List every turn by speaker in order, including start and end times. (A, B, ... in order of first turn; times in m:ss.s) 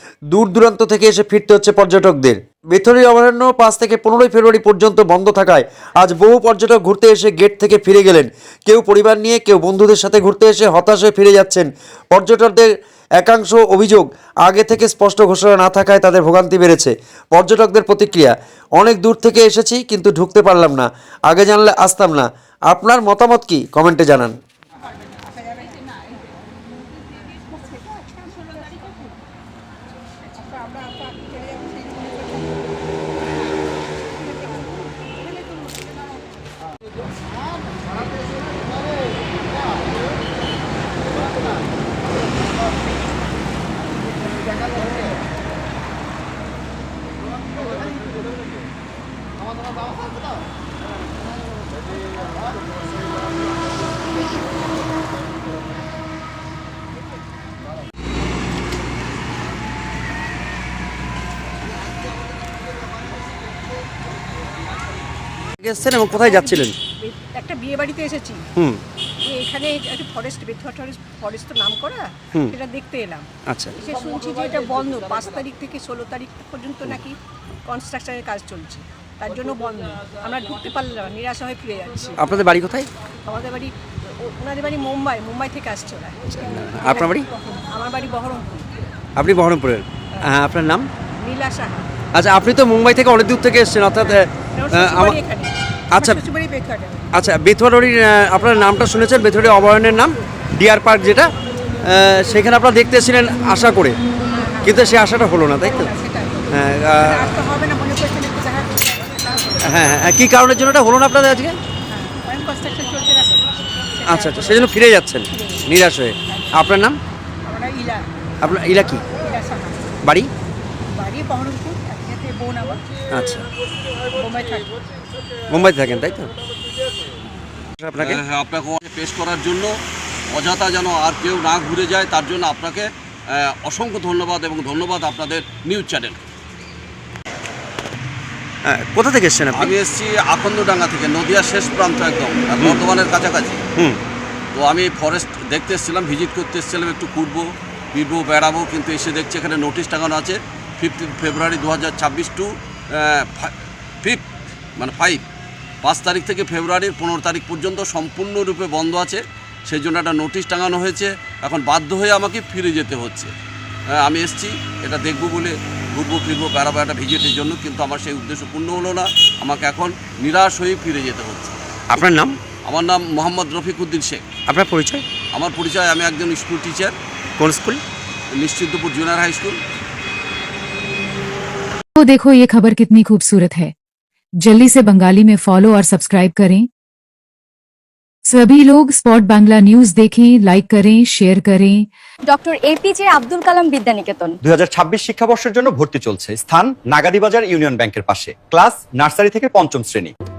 0:00.3-0:24.4 A
1:05.6-1:06.8 A
1:06.1-1:08.4 B
1:09.2-1:13.3 B
1:13.5-1:13.8 A
1:13.8-1:22.2 B
1:22.2-1:22.9 A
1:23.3-1:28.7 B
1:26.4-1:27.3 A
1:29.2-1:30.9 A
1:31.2-1:31.9 B
1:32.1-1:35.2 A
1:34.0-1:37.1 B
1:35.9-1:36.2 A
1:37.1-1:41.3 A
1:41.9-1:44.0 A
1:44.3-1:44.9 B
1:44.6-1:45.9 A
1:45.6-1:50.0 B
1:46.5-1:47.3 A
1:49.6-1:51.6 A
1:51.9-1:54.8 B
1:54.1-1:57.0 A
1:55.3-1:55.6 B
1:57.4-1:58.0 B
1:58.4-1:59.0 A
1:59.2-1:59.8 B
2:00.0-2:00.3 A
2:01.0-2:02.8 B
2:03.1-2:03.5 A
2:04.1-2:04.7 B
2:05.5-2:06.3 A
2:07.8-2:08.2 A
2:08.0-2:09.8 C
2:10.3-2:16.2 C
2:18.7-2:19.7 A
2:19.5-2:23.6 C
2:24.5-2:34.2 C
2:34.8-2:35.2 C
2:35.8-2:43.3 C
2:44.0-2:51.6 C
2:51.9-2:52.4 A
2:52.7-2:54.2 C
2:54.5-2:55.0 A
2:55.3-2:57.0 C
2:57.4-2:57.8 A
2:58.3-2:59.6 C
3:02.0-3:03.7 D
3:04.4-3:06.7 D
3:08.3-3:11.8 D
3:12.3-3:14.4 E
3:14.4-3:20.1 F